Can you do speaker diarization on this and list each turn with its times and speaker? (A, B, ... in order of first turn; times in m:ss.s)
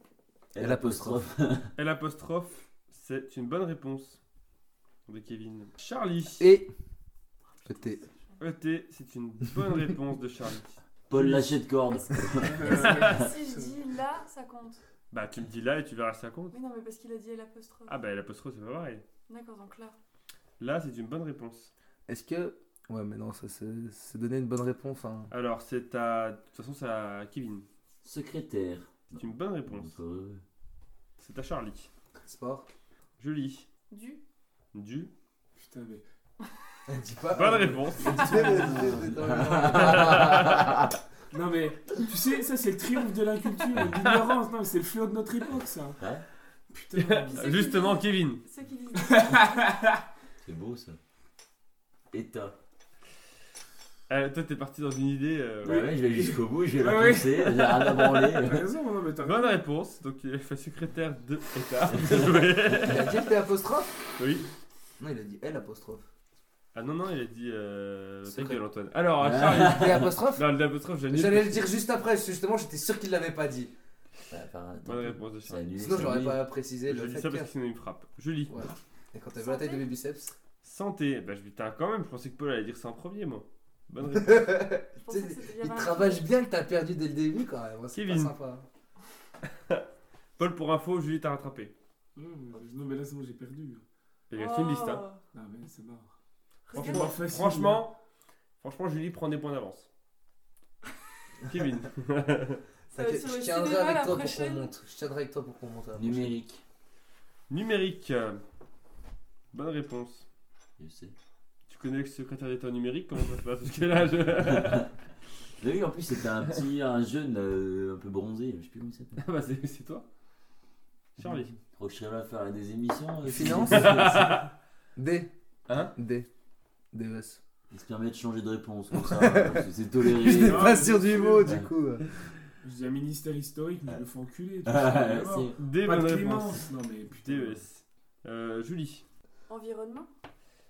0:00.5-0:01.7 A
0:00.6-0:01.2 B
0:01.8-0:04.2 C
0:05.1-0:06.5 C
0:06.4-0:06.7 B
0:07.6-0:08.1 D
0:07.6-0:08.0 B
0:08.4-0:10.8 C
0:11.1-0:13.1 A
0:11.1-0:11.6 E
0:12.4-0:13.7 E
0:12.6-0:14.8 D
0:12.8-0:13.2 C
0:15.1-0:16.6 C
0:16.5-0:18.0 D
0:17.9-0:19.0 C
0:19.3-0:20.0 D
0:20.6-0:21.7 C
0:22.1-0:25.3 B
0:25.3-0:27.6 C
0:28.0-0:30.4 A
0:29.1-0:29.9 C
0:31.2-0:31.9 C
0:32.2-0:32.7 B
0:33.2-0:33.6 C
0:33.9-0:34.2 D
0:34.7-0:35.1 C
0:35.6-0:36.0 E
0:36.9-0:40.8 B
0:37.3-0:38.7 C
0:38.0-0:40.6 A
0:39.6-0:40.7 C
0:41.3-0:46.0 E
0:44.0-0:44.4 C
0:46.0-0:46.2 A
0:46.7-0:47.5 E
0:46.9-0:48.4 C
0:47.3-0:49.7 D
0:49.0-0:50.0 E
0:50.4-0:51.0 A
0:52.1-0:52.6 A
0:54.1-0:55.9 C
0:55.6-0:58.7 A
0:56.1-0:59.6 E
0:59.2-1:03.2 C
1:02.0-1:02.2 A
1:02.7-1:03.9 B
1:04.2-1:04.4 C
1:05.0-1:06.0 B
1:06.7-1:11.7 C
1:08.2-1:08.6 B
1:09.2-1:10.1 A
1:09.4-1:10.5 B
1:11.1-1:13.7 B
1:14.3-1:16.4 A
1:14.8-1:16.1 C
1:15.8-1:17.5 B
1:16.9-1:18.6 C
1:18.5-1:20.3 B
1:19.4-1:19.9 D
1:20.6-1:24.7 C
1:24.1-1:28.7 B
1:25.0-1:26.3 D
1:27.9-1:28.3 C
1:30.4-1:31.7 C
1:32.2-1:33.8 E
1:34.3-1:35.0 C
1:34.3-1:35.2 D
1:35.3-1:36.1 E
1:36.7-1:37.2 D
1:36.7-1:37.9 C
1:36.7-1:37.9 E
1:38.6-1:39.9 C
1:41.4-1:42.6 C
1:42.9-1:44.7 D
1:42.9-1:46.3 B
1:46.0-1:46.6 A
1:47.5-1:48.4 C
1:49.5-1:50.2 C
1:50.8-1:51.1 A
1:51.7-1:54.9 C
1:54.4-1:54.9 A
1:55.6-1:59.2 A
1:59.2-2:00.0 C
2:01.2-2:01.5 C
2:01.6-2:04.3 A
2:03.2-2:04.4 B
2:03.5-2:04.5 C
2:05.0-2:05.3 B
2:05.7-2:05.9 C
2:05.9-2:06.3 B
2:06.9-2:07.4 B
2:07.7-2:10.8 A
2:08.9-2:12.0 B
2:10.3-2:11.5 E
2:11.4-2:11.7 A
2:12.6-2:17.6 E
2:14.6-2:15.6 A
2:15.6-2:19.0 C
2:19.5-2:20.1 D